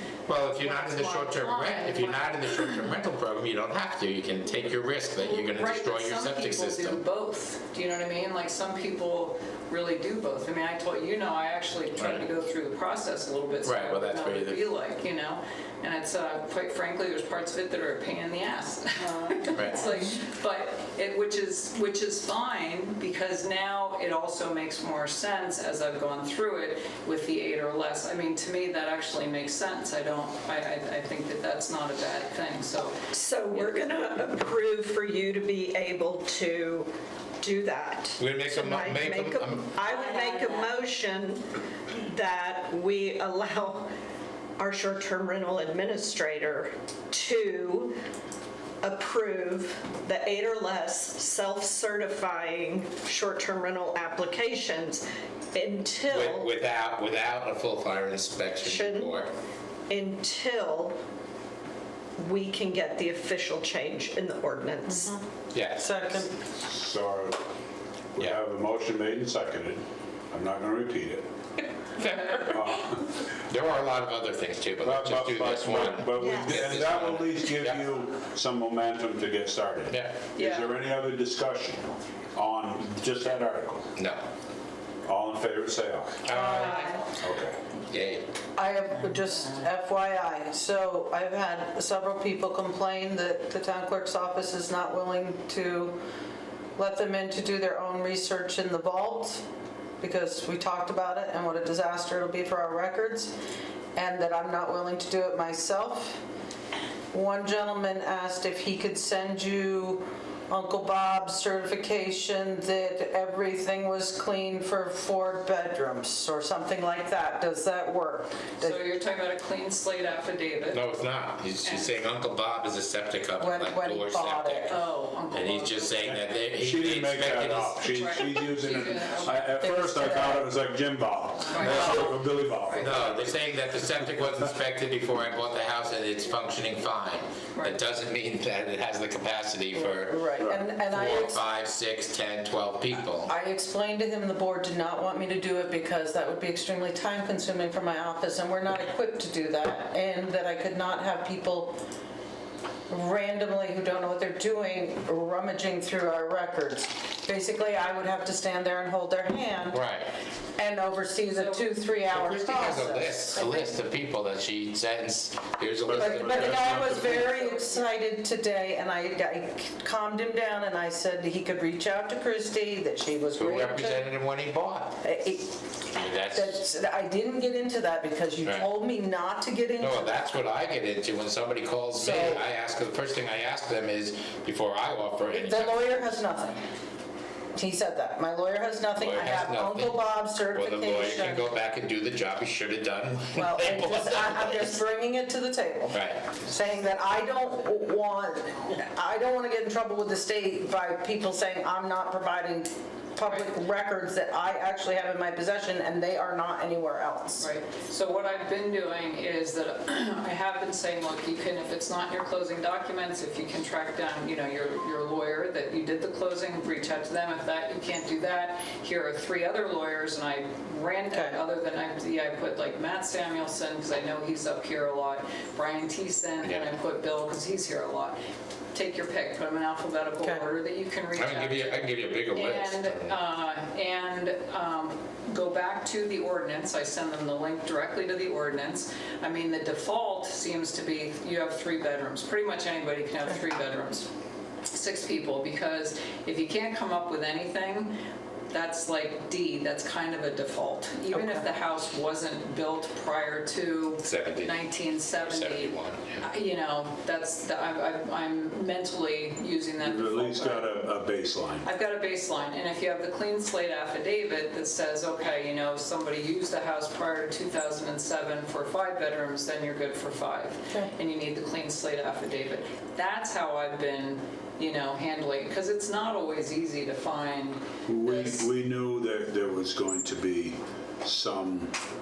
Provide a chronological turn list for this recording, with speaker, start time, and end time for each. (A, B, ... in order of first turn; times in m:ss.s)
0:00.3-0:07.0 A
0:00.4-0:03.0 B
0:05.2-0:33.0 B
0:12.0-0:12.2 A
0:13.6-0:14.6 A
0:19.5-0:19.9 A
0:33.1-0:43.9 C
0:38.2-0:39.7 A
0:44.6-0:47.9 C
0:48.8-0:56.5 C
0:56.1-0:59.3 A
0:58.6-0:59.2 C
0:59.9-1:01.0 C
1:02.2-1:05.1 C
1:04.9-1:05.2 D
1:05.5-1:06.2 A
1:05.8-1:06.3 D
1:06.6-1:07.4 E
1:08.2-1:11.3 E
1:12.0-1:17.8 A
1:12.1-1:12.4 B
1:12.5-1:13.0 E
1:14.8-1:23.9 E
1:16.2-1:16.7 C
1:19.9-1:20.2 A
1:20.4-1:20.8 B
1:24.0-1:24.2 A
1:25.1-1:26.3 E
1:26.2-1:26.9 A
1:26.3-1:27.0 D
1:26.6-1:27.0 B
1:27.1-1:27.6 E
1:27.9-1:28.3 A
1:28.6-1:36.0 D
1:29.2-1:29.6 B
1:36.8-1:39.4 D
1:40.0-1:43.3 D
1:44.0-1:46.2 D
1:47.1-1:58.8 D
1:58.6-2:00.8 B
2:00.7-2:04.8 A
2:01.6-2:02.0 B
2:03.4-2:04.8 D
2:04.7-2:06.0 B
2:05.3-2:08.2 A
2:06.0-2:13.5 E
2:07.9-2:09.6 B
2:09.6-2:10.5 D
2:11.5-2:13.0 B
2:11.6-2:12.0 D
2:12.8-2:20.3 A
2:17.5-2:17.8 B
2:19.8-2:21.4 D
2:20.4-2:20.6 E
2:20.9-2:23.3 A
2:23.2-2:31.8 D
2:32.9-2:39.8 D
2:39.7-2:40.1 A
2:40.6-2:43.7 D
2:41.3-2:41.7 B
2:42.1-2:47.2 A
2:45.9-2:47.2 E
2:45.9-2:54.1 D
2:53.4-2:55.0 A
2:55.0-2:55.6 D
2:55.9-2:56.6 A
2:56.3-3:00.4 D
2:58.4-2:58.7 A
2:59.8-3:06.2 A
3:02.0-3:02.4 D
3:05.3-3:06.6 D
3:07.6-3:11.5 D
3:09.0-3:14.8 A
3:13.4-3:27.5 D
3:15.9-3:16.3 A
3:27.4-3:48.2 B
3:41.1-3:41.4 D
3:46.4-3:46.7 A
3:48.7-4:04.1 B
3:51.2-3:53.2 A
4:04.7-4:08.0 B
4:08.5-4:20.9 B
4:11.1-4:11.4 D
4:14.0-4:16.2 A
4:19.8-4:21.7 E
4:21.6-4:38.5 B
4:37.9-4:41.8 E